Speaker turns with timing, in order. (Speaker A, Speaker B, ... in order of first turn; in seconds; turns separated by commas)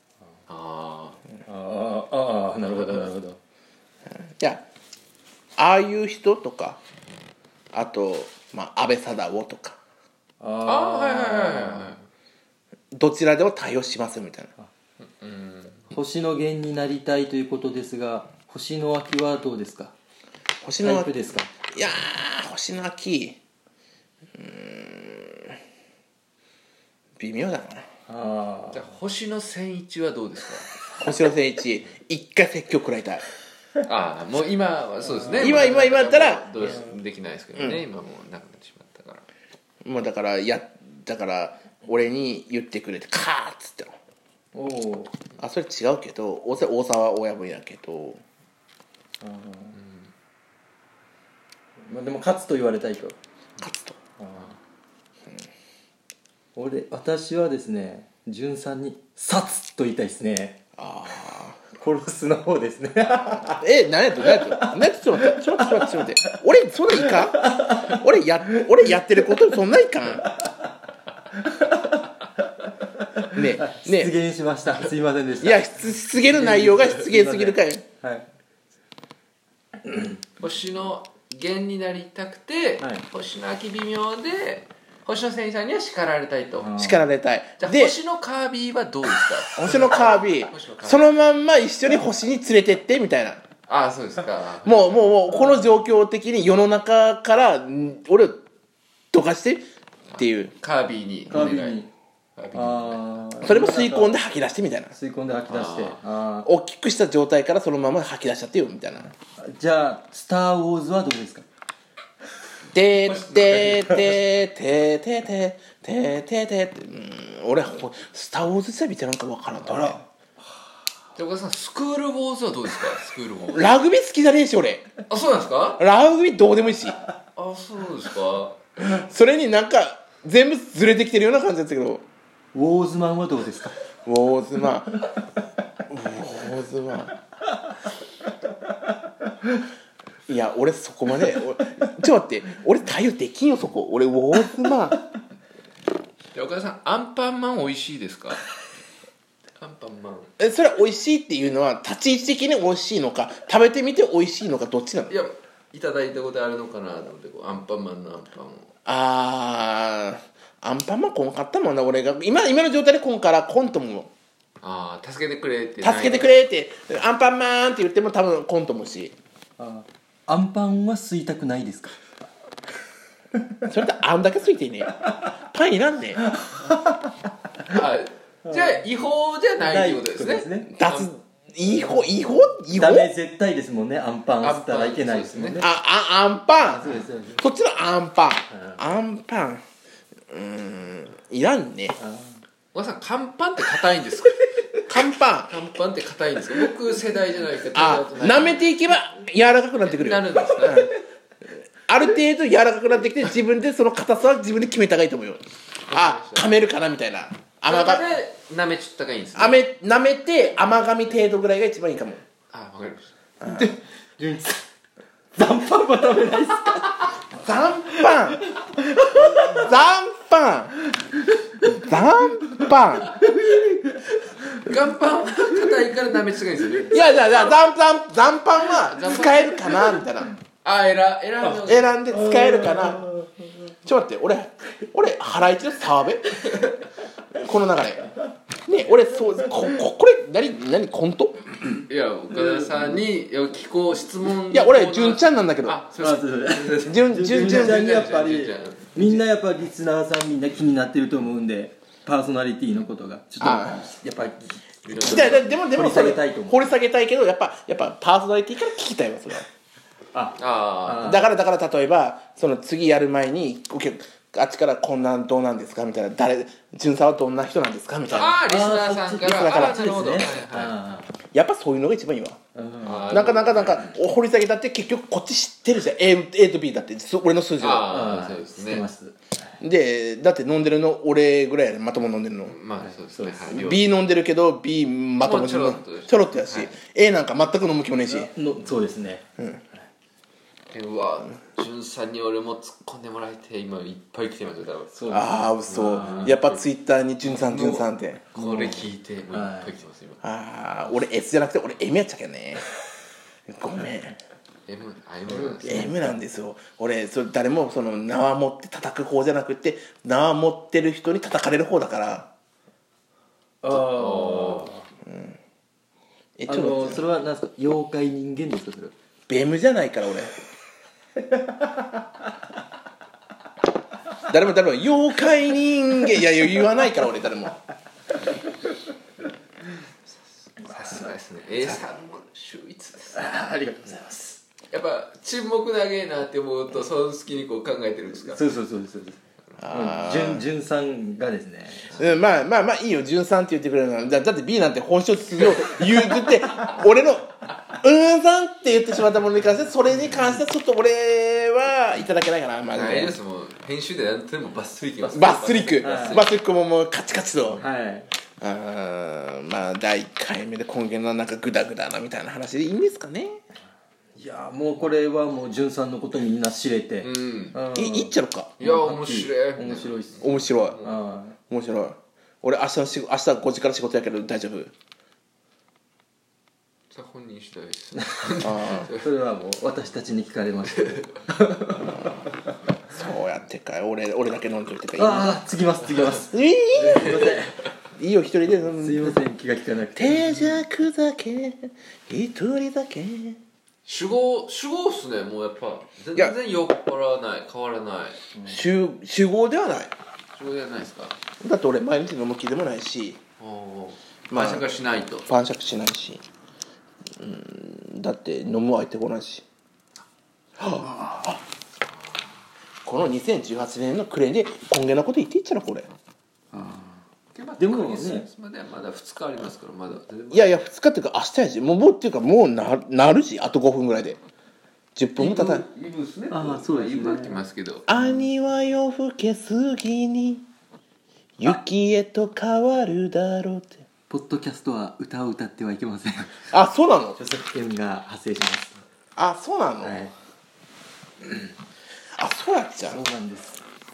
Speaker A: 0.5-1.2, Speaker B: 1.5-3.4, Speaker A: 2.8-3.1, Speaker C: 4.2-4.6, Speaker C: 5.6-6.8, Speaker C: 7.7-9.8, Speaker B: 10.4-11.9, Speaker A: 10.7-12.0, Speaker C: 12.9-14.5, Speaker A: 15.0-15.8, Speaker B: 15.9-19.9, Speaker C: 20.6-21.1, Speaker B: 20.8-21.5, Speaker C: 21.7-23.4, Speaker C: 24.4-25.5, Speaker C: 27.2-27.9, Speaker B: 28.1-28.9, Speaker A: 28.7-30.7, Speaker C: 30.9-33.2, Speaker A: 33.9-39.2, Speaker B: 35.1-35.9, Speaker C: 35.4-36.8, Speaker C: 39.8-44.0, Speaker B: 44.5-45.1, Speaker C: 45.4-48.2, Speaker B: 49.2-49.8, Speaker A: 49.8-50.1, Speaker B: 51.9-53.2, Speaker C: 53.6-54.0, Speaker B: 54.2-54.6, Speaker B: 56.5-60.6, Speaker C: 60.8-61.6, Speaker B: 61.8-63.7, Speaker C: 63.6-70.3, Speaker B: 64.2-66.0, Speaker B: 66.9-68.6, Speaker B: 70.2-70.7, Speaker B: 71.3-75.6, Speaker C: 73.3-74.1, Speaker C: 75.4-77.8, Speaker B: 76.3-78.3, Speaker A: 80.4-86.7, Speaker B: 86.6-87.0, Speaker C: 86.8-88.0, Speaker A: 87.6-91.1, Speaker C: 89.5-93.4, Speaker A: 93.7-95.1, Speaker C: 94.6-98.4, Speaker B: 95.3-95.6, Speaker C: 99.1-99.7, Speaker A: 100.1-101.8, Speaker C: 100.2-100.5, Speaker B: 101.3-101.9, Speaker A: 102.4-103.2, Speaker B: 102.5-104.2, Speaker C: 103.4-104.9, Speaker B: 104.9-106.5, Speaker A: 105.5-106.0, Speaker C: 106.5-109.1, Speaker B: 109.4-111.5, Speaker C: 112.7-120.0, Speaker A: 113.1-114.1, Speaker A: 121.2-123.7, Speaker C: 123.5-124.9, Speaker A: 125.1-125.8, Speaker C: 125.8-127.0, Speaker A: 127.4-128.6, Speaker C: 128.8-132.1, Speaker B: 132.5-133.8, Speaker C: 134.1-135.1, Speaker C: 135.9-137.2, Speaker C: 140.3-145.0, Speaker A: 146.3-148.4, Speaker A: 149.6-150.3, Speaker C: 150.4-155.1, Speaker A: 155.1-158.7, Speaker C: 158.9-164.1, Speaker A: 164.6-166.4, Speaker C: 165.8-169.1, Speaker B: 169.6-172.0, Speaker C: 173.6-176.2, Speaker B: 176.3-177.2, Speaker A: 177.7-181.1, Speaker B: 178.5-178.8, Speaker B: 179.6-180.7, Speaker C: 180.7-183.1, Speaker B: 181.7-182.0, Speaker B: 182.7-185.7, Speaker A: 184.4-185.6, Speaker C: 185.6-189.6, Speaker B: 186.6-187.4, Speaker B: 188.5-188.8, Speaker C: 190.3-192.0, Speaker B: 192.0-192.4, Speaker A: 192.7-194.9, Speaker C: 194.9-195.6, Speaker A: 195.5-198.7, Speaker C: 197.7-200.9, Speaker A: 199.8-200.9, Speaker C: 201.5-208.1, Speaker A: 205.9-206.5, Speaker A: 207.7-209.6, Speaker C: 209.4-212.2, Speaker A: 212.5-213.1, Speaker C: 213.4-213.7, Speaker B: 213.4-214.7, Speaker B: 215.3-217.2, Speaker C: 217.3-218.4, Speaker B: 217.9-219.7, Speaker C: 219.1-220.7, Speaker B: 221.0-221.7, Speaker C: 221.7-223.2, Speaker B: 222.6-224.6, Speaker A: 224.6-227.1, Speaker C: 226.9-230.3, Speaker A: 228.8-229.8, Speaker A: 230.6-232.0, Speaker C: 231.6-233.1, Speaker B: 232.1-233.3, Speaker C: 233.8-236.4, Speaker C: 237.3-238.1, Speaker C: 238.7-241.5, Speaker A: 241.9-249.2, Speaker C: 244.5-245.8, Speaker B: 246.0-256.7, Speaker C: 246.8-247.8, Speaker C: 253.4-253.8, Speaker A: 254.8-255.5, Speaker C: 255.0-259.5, Speaker B: 260.1-261.3, Speaker A: 260.4-261.2, Speaker C: 261.0-268.4, Speaker A: 268.1-270.8, Speaker B: 268.4-271.1, Speaker C: 269.2-270.4, Speaker C: 271.3-272.4, Speaker B: 272.6-273.2, Speaker A: 272.8-273.9, Speaker C: 273.1-277.9, Speaker A: 277.6-278.9, Speaker B: 277.9-279.5, Speaker C: 279.6-282.6, Speaker A: 282.5-283.9, Speaker B: 282.8-283.6, Speaker C: 283.5-288.3, Speaker A: 285.2-286.7, Speaker B: 288.1-289.2, Speaker C: 289.4-289.6, Speaker A: 290.7-296.4, Speaker B: 294.9-296.6, Speaker C: 295.1-298.3, Speaker A: 297.2-300.2, Speaker B: 298.4-299.8, Speaker C: 300.2-302.6, Speaker C: 303.5-304.2, Speaker A: 304.7-305.9, Speaker B: 305.3-306.2, Speaker C: 305.6-312.3, Speaker B: 313.6-314.9, Speaker A: 313.7-314.7, Speaker C: 315.1-315.4, Speaker C: 316.4-317.0, Speaker B: 316.5-318.9, Speaker C: 319.3-320.3, Speaker C: 324.3-327.6, Speaker A: 330.6-333.2, Speaker B: 333.1-334.4, Speaker A: 334.7-338.4, Speaker B: 338.3-342.0, Speaker C: 339.6-340.5, Speaker C: 341.9-353.2, Speaker A: 352.7-356.3, Speaker B: 355.0-356.2, Speaker C: 355.1-357.6, Speaker B: 357.6-358.1, Speaker C: 358.4-363.4, Speaker B: 364.1-370.3, Speaker A: 367.0-367.6, Speaker C: 367.8-368.6, Speaker A: 368.6-371.0, Speaker C: 370.2-370.8, Speaker B: 370.8-371.4, Speaker C: 371.5-374.7, Speaker A: 376.9-379.1, Speaker B: 378.0-382.2, Speaker C: 378.4-378.9, Speaker C: 382.9-385.4, Speaker B: 385.0-387.6, Speaker C: 386.3-387.4, Speaker A: 386.8-387.4, Speaker C: 388.0-389.2, Speaker B: 388.7-390.6, Speaker C: 389.9-393.4, Speaker A: 393.9-398.2, Speaker C: 398.5-399.9, Speaker A: 400.4-401.2, Speaker C: 401.4-403.2, Speaker A: 403.4-405.3, Speaker C: 404.3-404.7, Speaker C: 405.3-406.2, Speaker C: 407.2-409.4, Speaker C: 410.6-411.4, Speaker A: 411.9-412.3, Speaker C: 412.9-415.9, Speaker B: 416.5-417.0, Speaker A: 417.4-420.7, Speaker B: 417.6-418.3, Speaker C: 420.3-424.2, Speaker C: 425.0-425.6, Speaker A: 425.2-427.9, Speaker B: 426.3-427.4, Speaker C: 427.9-430.4, Speaker B: 427.9-428.2, Speaker C: 431.4-433.8, Speaker B: 434.1-436.5, Speaker C: 436.5-437.2, Speaker B: 437.2-438.8, Speaker C: 439.2-440.0, Speaker B: 439.8-440.1, Speaker C: 442.2-443.0, Speaker B: 442.9-443.6